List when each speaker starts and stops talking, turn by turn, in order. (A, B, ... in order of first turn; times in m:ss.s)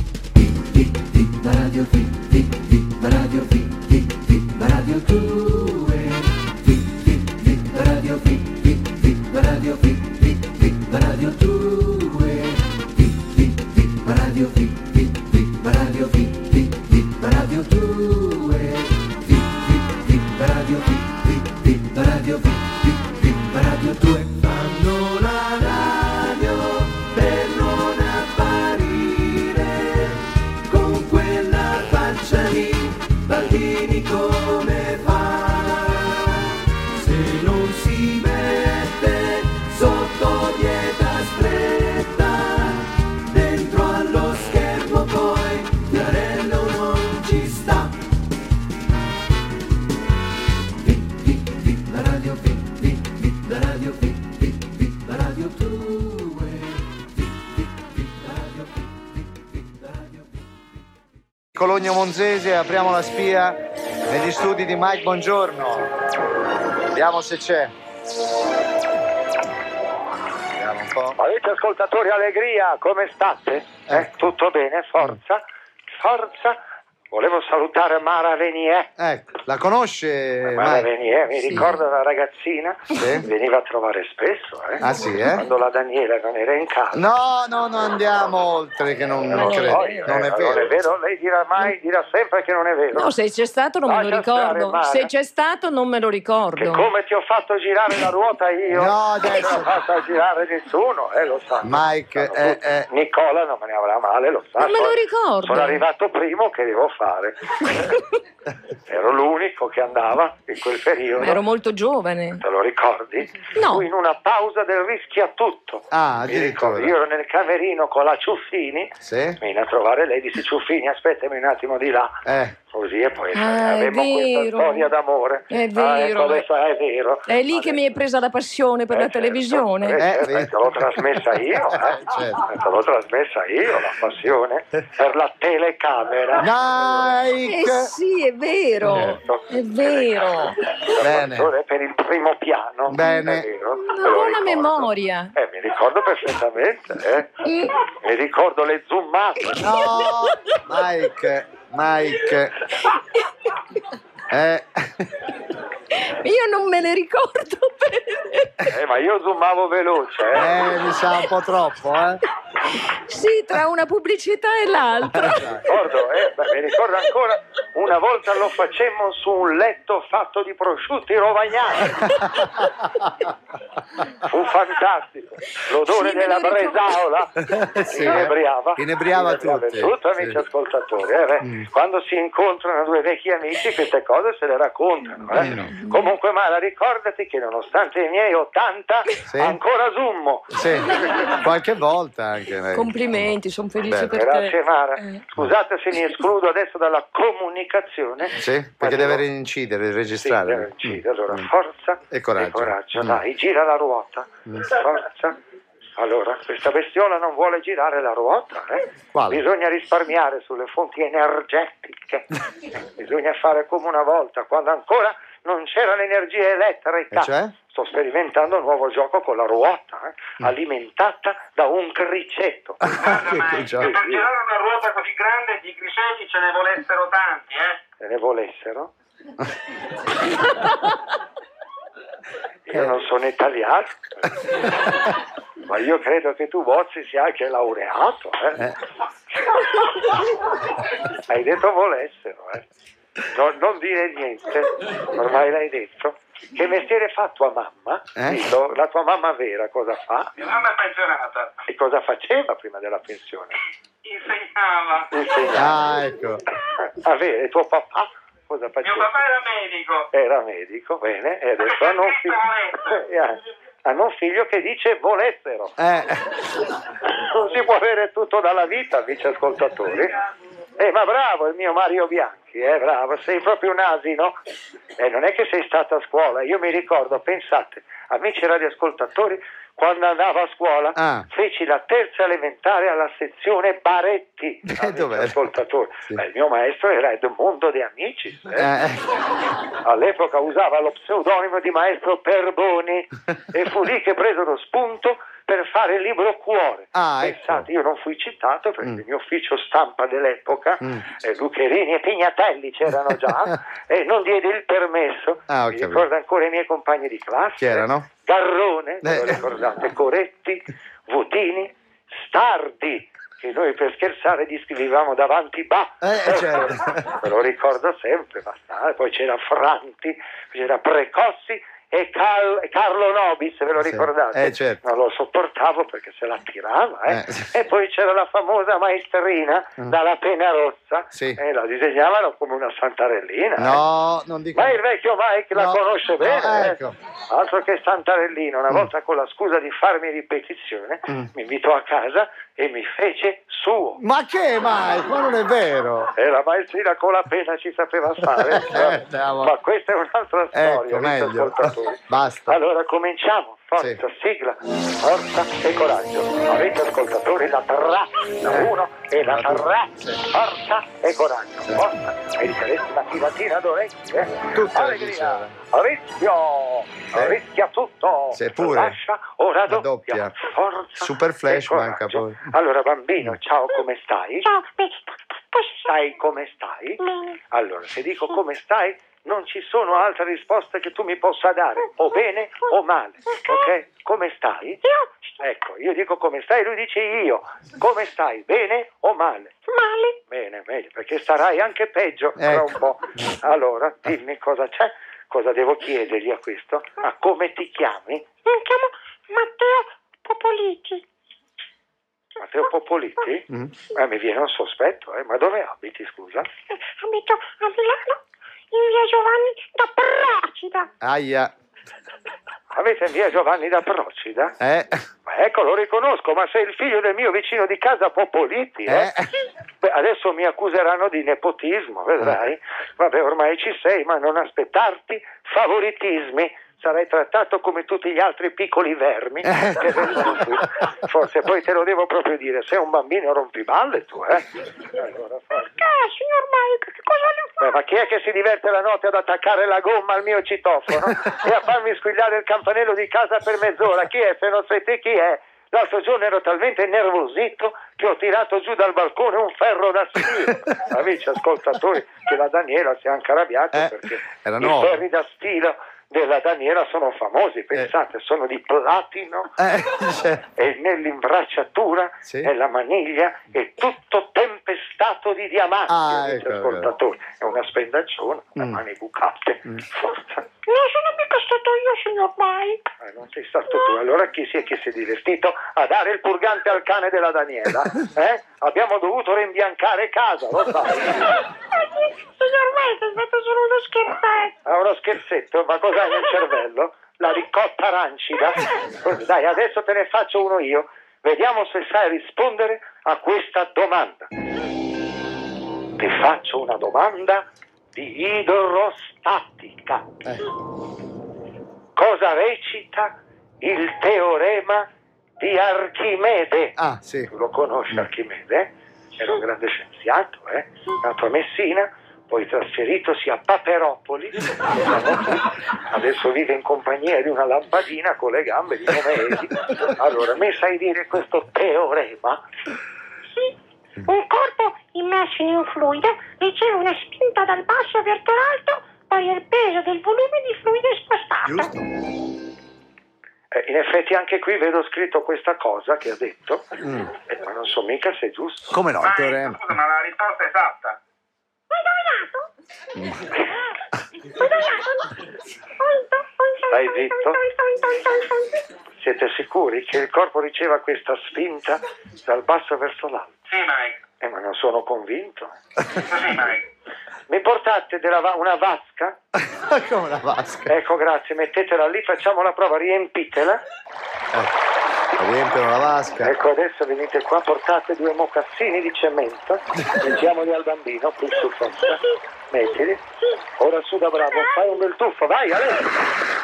0:04.7-0:06.2 A
0:10.9-0:12.6 A
0:14.1-0:14.7 A
0:15.6-0:18.9 A
0:19.9-0:22.8 A
0:23.3-0:36.2 A
0:29.1-0:29.6 B
0:35.8-0:36.4 B
0:37.0-0:47.9 A
0:38.6-0:39.5 B
0:52.0-0:54.1 A
0:55.1-0:56.6 A
1:01.5-1:05.9 C
1:06.9-1:07.7 C
1:10.5-1:11.2 C
1:11.2-1:16.6 D
1:17.1-1:18.9 D
1:19.0-1:20.9 C
1:20.4-1:27.1 D
1:21.4-1:21.7 B
1:23.0-1:23.3 C
1:24.8-1:25.4 C
1:26.9-1:30.8 C
1:29.3-1:30.2 B
1:29.3-1:33.1 D
1:32.9-1:36.9 B
1:33.8-1:35.1 D
1:36.6-1:47.9 D
1:38.7-1:39.7 C
1:41.6-1:42.9 C
1:44.6-1:45.8 B
1:48.8-1:51.4 D
1:51.2-1:52.4 B
1:52.4-2:07.8 D
1:53.6-1:53.8 B
1:55.9-1:56.9 C
1:59.0-1:59.4 C
2:02.2-2:02.6 C
2:03.3-2:04.9 B
2:05.5-2:06.4 B
2:07.3-2:10.0 B
2:08.9-2:16.5 D
2:10.0-2:12.4 C
2:16.4-2:17.9 C
2:17.4-2:20.6 B
2:18.8-2:19.2 C
2:18.9-2:29.8 D
2:21.0-2:21.5 C
2:22.9-2:23.5 C
2:23.0-2:23.3 B
2:23.8-2:25.3 B
2:27.4-2:27.8 B
2:29.6-2:32.6 C
2:29.7-2:30.6 B
2:34.3-2:35.1 C
2:36.0-2:38.7 B
2:38.7-2:40.7 D
2:40.3-2:42.2 C
2:42.7-2:45.9 B
2:45.0-2:45.6 C
2:45.6-2:52.2 D
2:52.0-2:52.8 C
2:54.1-3:10.6 D
2:55.8-2:57.0 B
2:57.5-3:00.4 C
3:01.4-3:01.7 C
3:05.3-3:06.1 B
3:05.3-3:05.7 C
3:09.3-3:09.6 C
3:10.5-3:13.3 C
3:12.7-3:15.2 B
3:13.8-3:14.2 C
3:14.1-3:19.2 D
3:18.4-3:21.5 C
3:20.2-3:25.4 D
3:22.1-3:23.2 C
3:26.0-3:42.8 D
3:29.1-3:29.4 C
3:37.1-3:37.5 C
3:42.8-3:43.9 C
3:43.0-3:47.8 E
3:43.7-3:44.3 D
3:48.0-3:48.9 D
3:52.6-3:54.6 D
3:55.6-3:58.7 D
4:01.3-4:02.7 D
4:03.3-4:10.3 D
4:08.2-4:08.5 C
4:10.4-4:11.6 E
4:11.6-4:13.6 D
4:14.0-4:15.1 E
4:15.1-4:15.9 D
4:15.5-4:16.4 C
4:16.8-4:19.2 D
4:18.8-4:20.1 E
4:20.1-4:25.8 D
4:21.6-4:23.0 E
4:25.8-4:26.4 C
4:27.0-4:30.1 D
4:30.8-4:34.4 D
4:35.0-4:48.7 D
4:41.0-4:41.3 C
4:44.7-4:45.5 C
4:48.5-4:49.1 C
4:49.8-5:33.8 D
4:56.9-4:57.7 C
5:05.5-5:06.0 C
5:07.6-5:08.1 C
5:09.0-5:09.4 C
5:16.0-5:17.2 C
5:23.8-5:24.8 C
5:27.1-5:27.5 C
5:31.1-5:31.4 C
5:33.6-5:34.8 C
5:34.5-5:44.0 D
5:35.5-5:36.9 C
5:44.0-5:46.1 C
5:46.1-6:14.5 D
5:48.4-5:49.5 C
5:50.5-5:52.6 C
5:59.2-6:00.2 C
6:04.5-6:05.6 C
6:08.3-6:09.0 C
6:09.7-6:10.4 C
6:11.0-6:12.5 C
6:14.4-6:15.9 F
6:15.8-6:24.8 D
6:17.0-6:17.4 F
6:23.3-6:23.7 F
6:24.8-6:25.4 F
6:25.4-6:29.6 D
6:29.7-6:30.2 F
6:30.3-6:38.2 D
6:32.4-6:32.7 C
6:38.4-6:41.0 F
6:42.4-6:46.5 D
6:46.7-6:48.2 F
6:48.7-6:50.9 F
6:51.0-6:51.5 C
6:52.7-6:54.6 D
6:54.6-6:55.0 C
6:55.2-6:59.1 D
6:58.8-6:59.3 C
6:59.8-7:15.8 D
7:09.4-7:10.7 C
7:15.5-7:17.7 F
7:17.6-7:39.6 D
7:33.7-7:35.0 C
7:39.6-7:40.4 C
7:40.5-7:50.4 D
7:42.2-7:42.5 C
7:45.9-7:46.9 C
7:50.6-7:52.8 F
7:53.0-8:01.4 D
7:53.7-7:53.9 F
8:01.4-8:04.6 F
8:04.6-8:14.3 D
8:15.9-8:20.2 D
8:21.9-8:42.4 D
8:26.8-8:27.3 C
8:43.4-8:51.7 F
8:51.4-8:51.8 C
8:53.5-8:58.8 D
8:56.8-8:57.1 C
8:58.7-8:59.6 C
8:59.0-9:01.0 E
9:01.7-9:02.5 F
9:03.0-9:03.3 C
9:04.3-9:08.7 F
9:06.7-9:07.4 D
9:09.0-9:13.4 D
9:13.5-9:14.0 E
9:14.2-9:15.5 D
9:16.1-9:16.6 E
9:17.3-9:19.2 D
9:19.4-9:20.7 C
9:20.7-9:23.6 D
9:25.2-9:26.3 C
9:26.2-9:36.0 D